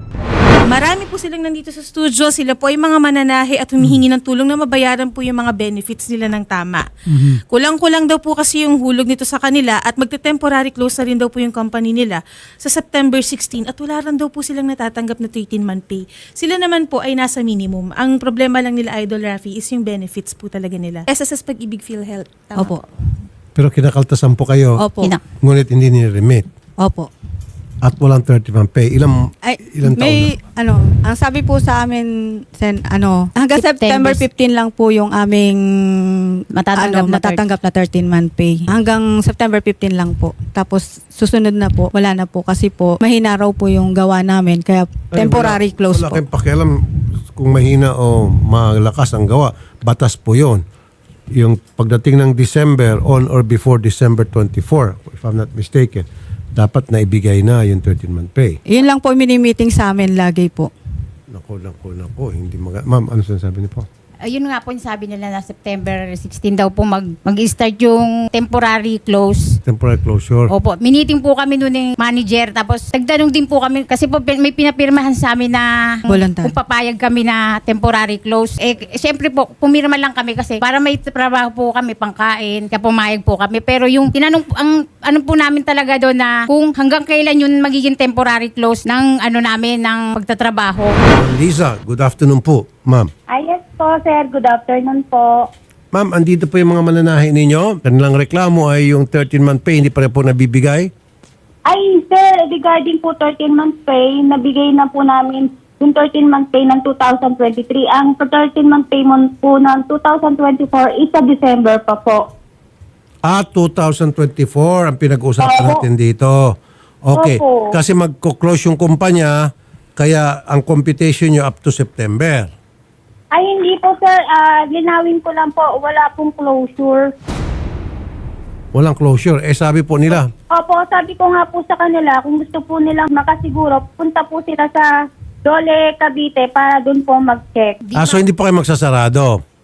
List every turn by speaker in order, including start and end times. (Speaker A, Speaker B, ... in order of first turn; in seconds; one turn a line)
Speaker A: 0.7-22.8
Speaker B: 22.6-22.9
Speaker C: 23.6-24.8
Speaker B: 24.8-25.2
Speaker C: 25.4-26.5
Speaker B: 26.8-27.1
Speaker C: 27.8-30.4
Speaker B: 29.4-46.2
Speaker D: 33.8-34.2
Speaker D: 36.5-37.4
Speaker C: 45.1-46.8
Speaker C: 47.3-50.6
Speaker C: 51.4-58.6
Speaker B: 58.7-60.7
Speaker C: 61.3-63.9
Speaker D: 64.2-69.5
Speaker C: 69.7-70.5
Speaker D: 70.5-91.0
Speaker B: 76.1-76.5
Speaker C: 91.1-93.1
Speaker E: 93.3-95.5
Speaker C: 95.9-100.9
Speaker E: 101.7-112.3
Speaker C: 113.2-122.5
Speaker E: 115.4-115.8
Speaker E: 117.1-117.7
Speaker E: 123.3-127.1
Speaker C: 128.7-130.3
Speaker E: 130.1-134.9
Speaker E: 135.4-137.8
Speaker D: 137.8-138.2
Speaker C: 138.0-139.4